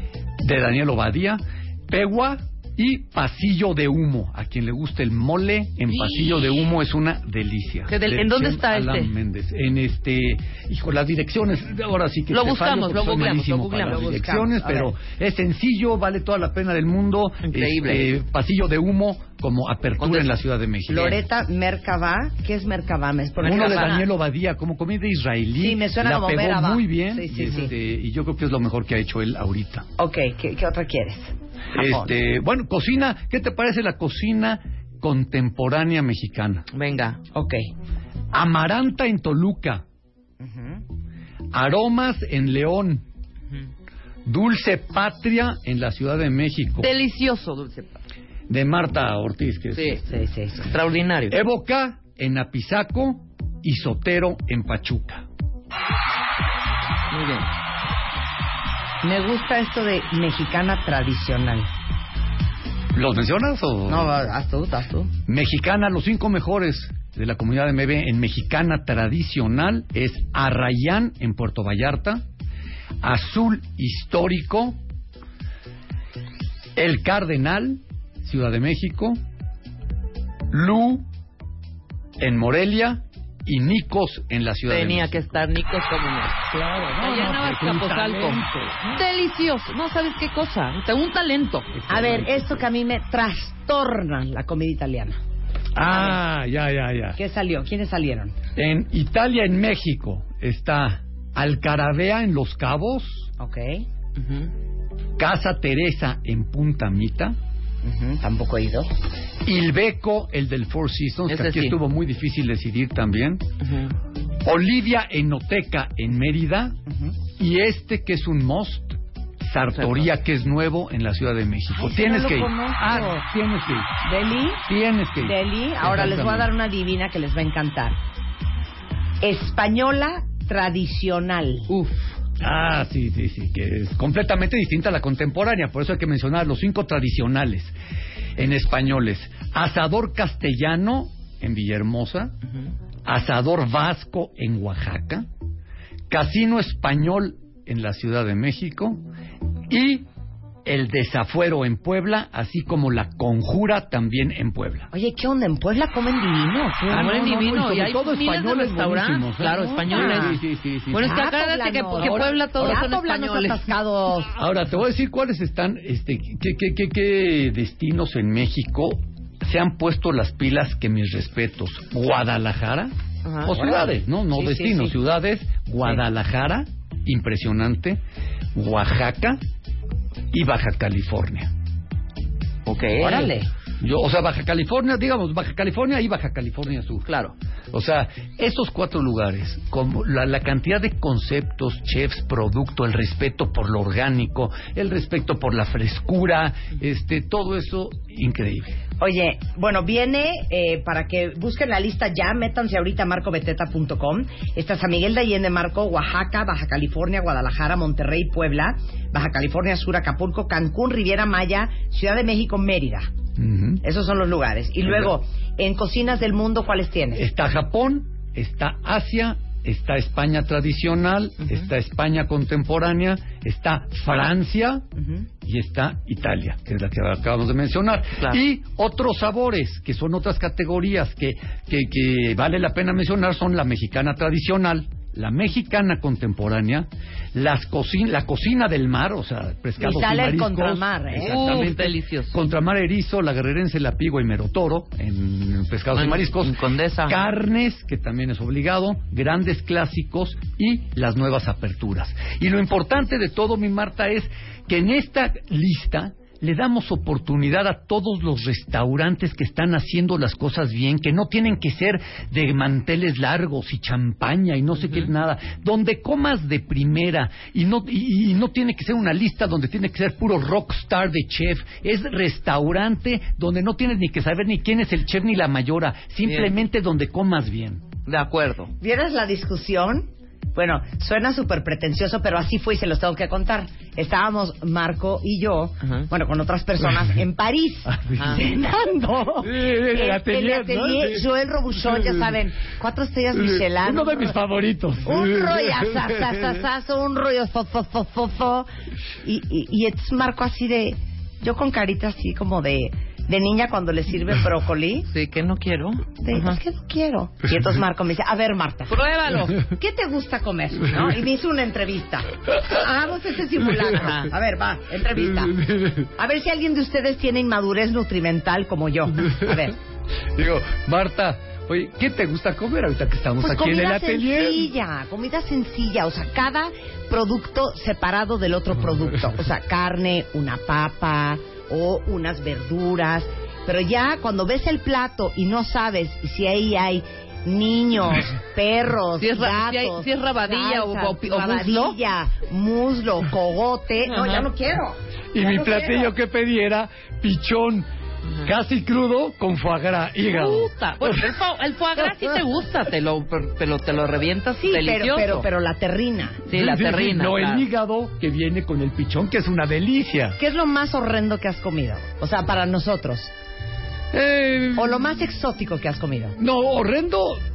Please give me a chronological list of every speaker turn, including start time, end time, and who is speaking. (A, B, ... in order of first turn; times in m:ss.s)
0:00.4-0:21.2 A
0:05.9-0:06.7 B
0:07.9-0:09.1 B
0:12.3-0:14.2 B
0:13.8-0:14.9 C
0:17.4-0:18.2 B
0:20.0-0:20.3 B
0:20.9-0:24.0 C
0:23.4-0:24.0 B
0:23.4-0:29.8 A
0:25.6-0:27.7 C
0:30.0-0:32.1 C
0:31.7-0:36.6 A
0:36.7-0:37.2 B
0:37.3-0:37.7 C
0:38.3-0:39.8 A
0:40.4-0:40.8 C
0:41.5-0:43.0 A
0:44.2-0:46.9 A
0:46.8-0:48.0 B
0:48.5-0:50.1 A
0:49.7-0:50.0 B
0:50.1-0:50.7 C
0:50.6-0:51.4 B
0:51.3-0:55.2 A
0:57.1-0:57.5 B
0:59.0-1:01.7 C
1:02.9-1:04.1 A
1:03.9-1:05.1 C
1:05.3-1:12.2 A
1:13.0-1:14.8 A
1:16.8-1:19.2 A
1:20.5-1:21.0 A
1:22.2-1:25.3 A
1:24.7-1:26.4 B
1:26.5-1:28.8 A
1:27.0-1:31.7 B
1:31.7-1:32.4 A
1:31.9-1:35.2 C
1:35.8-1:37.2 A
1:35.8-1:36.2 C
1:37.2-1:38.3 C
1:38.6-1:43.3 A
1:43.4-1:43.8 C
1:44.2-1:44.5 B
1:45.2-1:47.3 A
1:47.8-1:48.9 C
1:49.4-1:53.4 A
1:51.3-1:51.8 B
1:53.6-1:53.9 B
1:54.4-1:56.7 A
1:56.9-1:57.1 C
1:57.4-2:03.9 A
1:59.7-2:00.0 B
2:01.7-2:03.2 C
2:04.0-2:04.6 C
2:04.6-2:06.5 A
2:05.2-2:08.0 C
2:09.2-2:11.7 C
2:11.7-2:12.1 B
2:12.4-2:17.7 A
2:18.4-2:22.3 A
2:23.1-2:25.2 A
2:26.1-2:29.0 A
2:29.7-2:30.0 A
2:30.6-2:34.9 A
2:34.9-2:37.1 C
2:36.9-2:41.2 A
2:36.9-2:40.4 B
2:39.5-2:40.4 C
2:40.9-2:43.7 B
2:41.0-2:44.3 C
2:41.9-2:42.9 A
2:44.3-2:52.9 A
2:53.2-2:53.8 B
2:53.4-2:58.0 A
2:53.8-2:54.9 C
2:58.5-2:59.4 A
3:00.3-3:01.5 A
3:02.6-3:03.3 B
3:03.0-3:03.5 C
3:03.8-3:07.1 A
3:07.0-3:07.3 B
3:07.7-3:18.8 A
3:19.0-3:33.1 C
3:33.4-3:33.8 A
3:33.8-3:37.2 C
3:37.1-3:44.8 A
3:45.0-3:45.3 C
3:45.4-4:37.8 A
3:59.8-4:01.7 C
4:01.2-4:02.4 B
4:05.9-4:07.2 B
4:36.2-4:36.5 B
4:38.0-4:38.7 B
4:38.8-4:54.3 C
4:45.8-4:46.1 B
4:47.9-4:48.6 A
4:49.4-4:52.3 A
4:53.3-4:56.6 A
4:55.0-4:58.7 C
4:59.2-5:05.1 C
5:05.1-5:06.6 B
5:06.2-5:09.0 C
5:08.9-5:09.6 B
5:09.5-5:15.6 C
5:10.8-5:11.2 A
5:14.0-5:14.3 B
5:15.2-5:16.1 A
5:16.2-5:19.8 C
5:19.2-5:19.5 A
5:20.3-5:24.7 A
5:23.4-5:46.1 C
5:39.2-5:42.0 B
5:44.0-5:44.5 B
5:45.3-5:47.8 A
5:48.4-5:51.3 A
5:50.2-5:55.4 B
5:54.6-5:56.4 C
5:56.5-5:57.6 B
5:56.5-6:00.4 A
6:00.4-6:03.3 C
6:04.1-6:05.1 A
6:04.7-6:06.4 C
6:06.4-6:07.4 A